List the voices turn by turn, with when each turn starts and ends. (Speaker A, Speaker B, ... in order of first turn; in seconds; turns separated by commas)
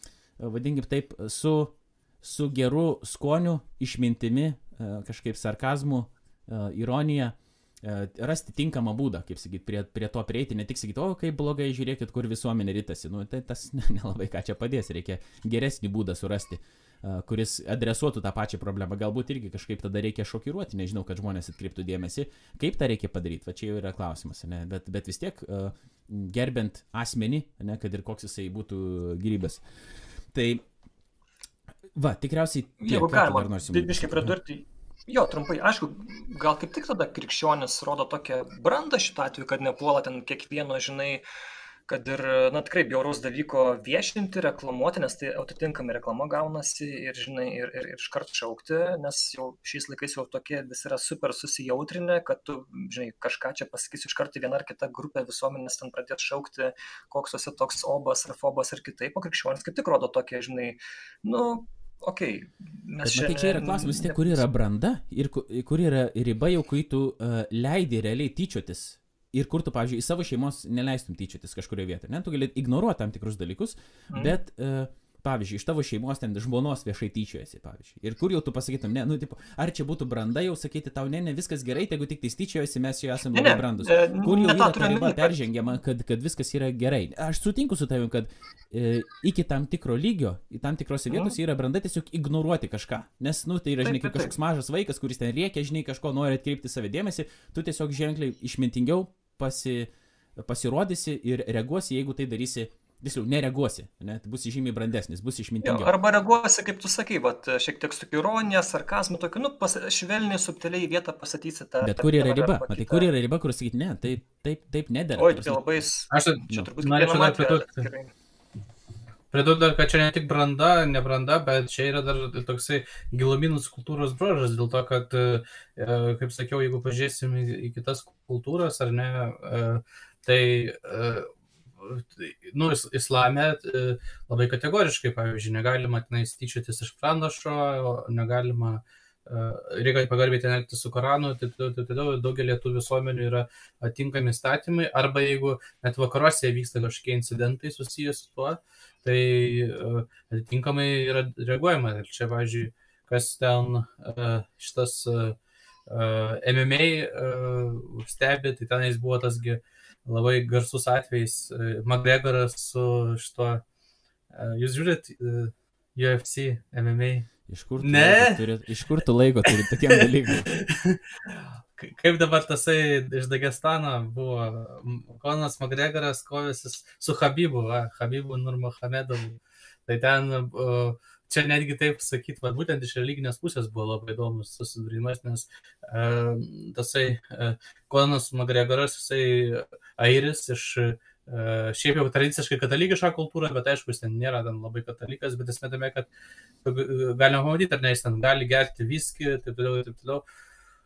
Speaker A: 0.4-29.6, Speaker A: 30.3-30.6, Speaker A: 32.0-34.3, Speaker B: 32.8-41.2, Speaker B: 41.9-64.4, Speaker A: 63.0-105.9, Speaker B: 83.3-85.4, Speaker B: 93.8-94.3, Speaker B: 105.6-113.1, Speaker A: 111.8-115.6, Speaker B: 115.2-118.1, Speaker C: 116.1-117.9, Speaker C: 119.3-131.3, Speaker C: 131.8-155.4, Speaker C: 155.9-163.6, Speaker C: 164.3-167.3, Speaker A: 167.5-170.5, Speaker C: 167.8-168.4, Speaker C: 169.9-196.1, Speaker C: 196.6-200.2